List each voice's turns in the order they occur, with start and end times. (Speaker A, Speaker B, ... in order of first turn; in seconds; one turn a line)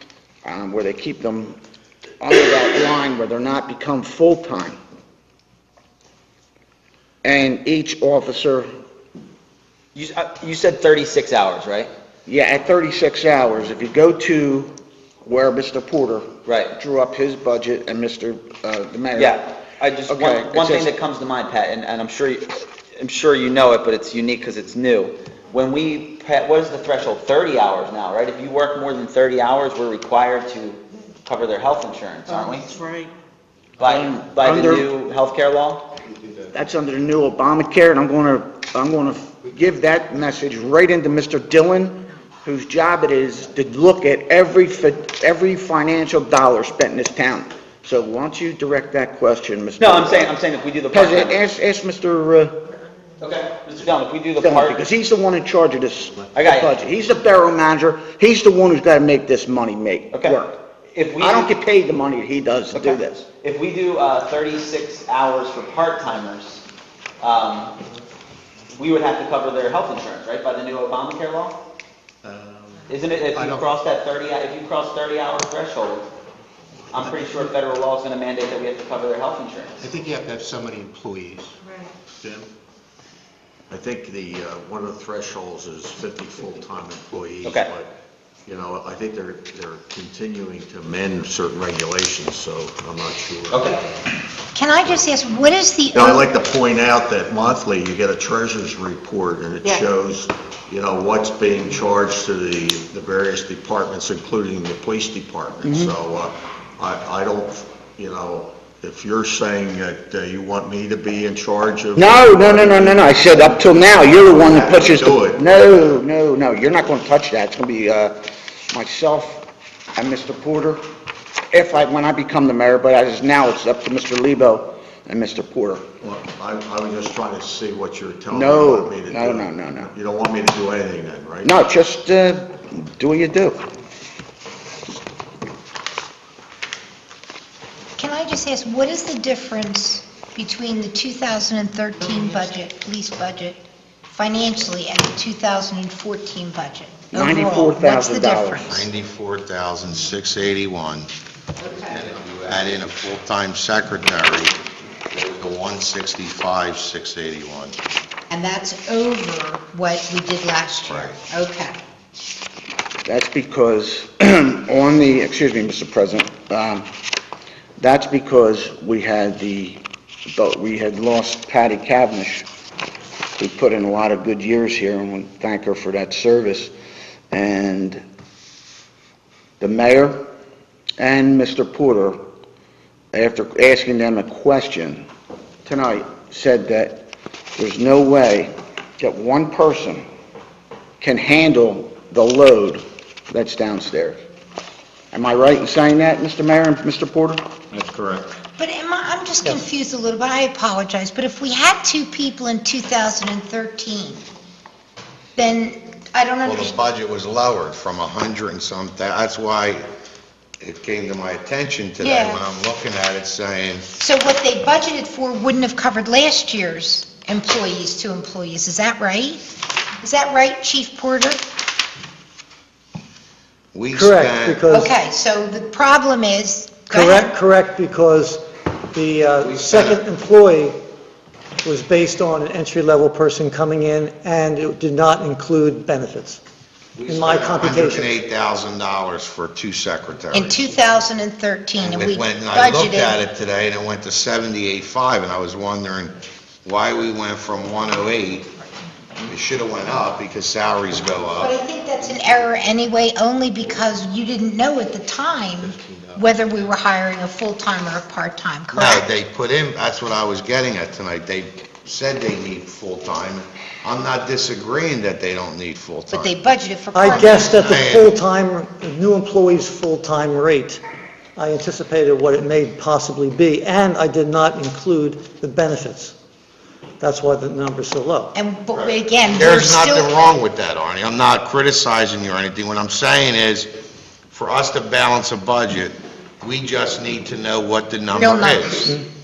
Speaker A: 0.4-1.6
Speaker A: 2.2-4.8
Speaker A: 7.2-8.7
Speaker B: 9.9-11.9
Speaker A: 12.3-19.5
Speaker B: 16.5-16.8
Speaker B: 19.1-32.7
Speaker A: 20.1-20.9
Speaker A: 32.3-33.1
Speaker B: 33.8-35.9
Speaker A: 33.8-35.0
Speaker A: 36.5-50.4
Speaker B: 49.8-51.4
Speaker A: 50.9-52.6
Speaker B: 53.2-54.8
Speaker A: 54.4-60.6
Speaker B: 56.3-56.8
Speaker B: 60.1-60.4
Speaker B: 60.9-61.5
Speaker A: 61.2-63.3
Speaker B: 62.7-66.6
Speaker B: 67.2-67.7
Speaker B: 68.8-71.6
Speaker B: 72.9-76.1
Speaker C: 73.3-73.6
Speaker B: 76.9-79.9
Speaker C: 79.8-81.5
Speaker D: 82.2-82.5
Speaker D: 83.7-87.9
Speaker B: 87.4-87.7
Speaker D: 88.5-93.9
Speaker B: 93.5-93.8
Speaker E: 94.5-96.2
Speaker D: 95.9-116.0
Speaker A: 105.7-105.9
Speaker A: 112.0-119.5
Speaker A: 120.0-120.8
Speaker A: 121.5-125.9
Speaker D: 126.0-131.6
Speaker A: 128.3-129.9
Speaker A: 131.4-133.7
Speaker E: 138.0-148.7
Speaker A: 147.1-148.9
Speaker F: 148.7-151.1
Speaker F: 151.9-154.6
Speaker F: 155.1-157.8
Speaker E: 158.3-161.8
Speaker F: 160.8-161.2
Speaker A: 163.1-166.9
Speaker A: 167.8-172.5
Speaker A: 173.4-176.7
Speaker A: 177.3-178.0
Speaker A: 179.6-180.2
Speaker A: 181.0-182.2
Speaker A: 183.1-185.1
Speaker A: 185.7-190.0
Speaker A: 191.0-194.2
Speaker A: 195.1-197.9
Speaker E: 198.6-204.2
Speaker E: 205.4-206.8
Speaker F: 206.4-209.9
Speaker F: 210.6-213.9
Speaker E: 212.0-212.4
Speaker E: 214.0-219.4
Speaker E: 220.0-221.4
Speaker F: 223.7-224.6
Speaker G: 223.9-224.9
Speaker E: 224.7-227.3
Speaker G: 226.9-228.4
Speaker G: 228.9-230.8
Speaker F: 229.4-230.0
Speaker G: 231.6-236.4
Speaker F: 237.0-240.6
Speaker G: 237.1-238.2
Speaker E: 240.3-243.2
Speaker F: 241.8-248.5
Speaker F: 249.3-251.6
Speaker E: 251.4-259.1
Speaker C: 255.8-256.4
Speaker F: 258.7-266.3
Speaker E: 266.1-267.6
Speaker G: 266.9-270.8
Speaker F: 267.0-268.1
Speaker G: 271.4-276.1
Speaker G: 277.0-278.3
Speaker E: 278.4-280.1
Speaker F: 279.3-283.7
Speaker F: 284.3-289.0
Speaker E: 288.1-289.0